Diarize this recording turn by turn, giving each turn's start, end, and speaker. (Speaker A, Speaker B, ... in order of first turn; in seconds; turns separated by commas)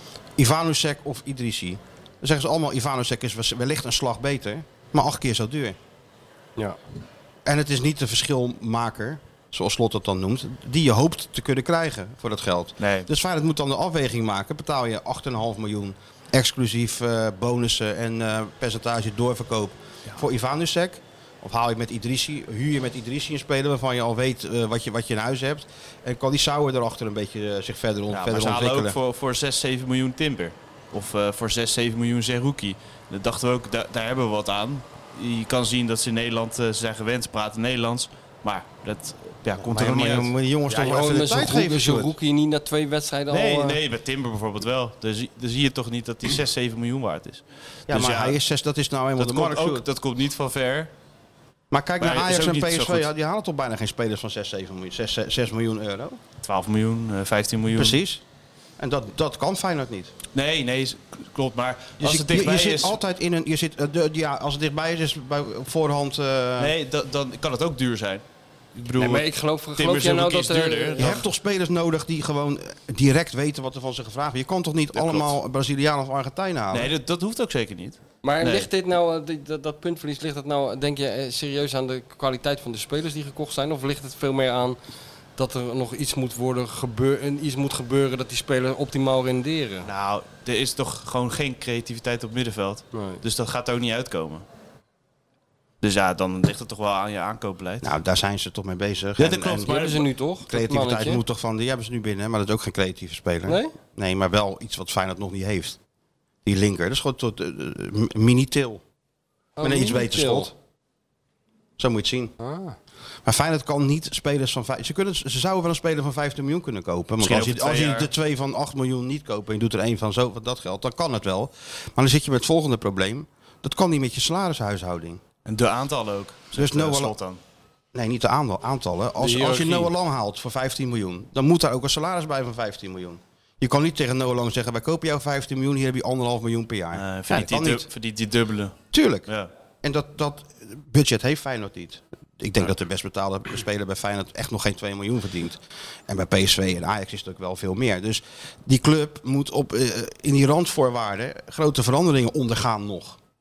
Speaker A: 0.4-5.8, Speaker A: 7.5-28.9, Speaker B: 12.8-13.1, Speaker B: 28.1-40.3, Speaker A: 39.6-42.1, Speaker C: 40.7-43.8, Speaker B: 43.3-48.4, Speaker A: 47.9-49.8, Speaker B: 49.2-50.9, Speaker A: 51.7-56.2, Speaker B: 52.0-53.1, Speaker B: 56.4-58.0, Speaker A: 57.7-58.2, Speaker A: 58.8-60.1, Speaker B: 60.3-63.0, Speaker A: 62.0-66.7, Speaker B: 66.6-68.2, Speaker B: 68.7-71.2, Speaker C: 68.9-71.0, Speaker A: 71.0-76.9, Speaker B: 74.9-75.3, Speaker B: 76.7-78.7, Speaker C: 78.2-84.8, Speaker C: 85.4-89.9, Speaker B: 89.8-94.5, Speaker C: 92.9-93.2, Speaker B: 95.8-97.9, Speaker A: 97.8-99.7, Speaker B: 99.2-100.1, Speaker C: 99.6-101.2, Speaker A: 100.4-105.8, Speaker C: 103.5-103.7, Speaker A: 106.4-108.8, Speaker C: 109.6-110.5, Speaker A: 109.6-110.5, Speaker A: 111.8-112.3, Speaker C: 112.4-112.8, Speaker A: 113.2-125.2, Speaker B: 117.2-118.1, Speaker B: 125.5-127.4, Speaker A: 126.5-127.1, Speaker A: 127.9-137.9, Speaker C: 129.2-129.9, Speaker B: 136.9-139.5, Speaker A: 138.9-139.3, Speaker A: 139.8-153.2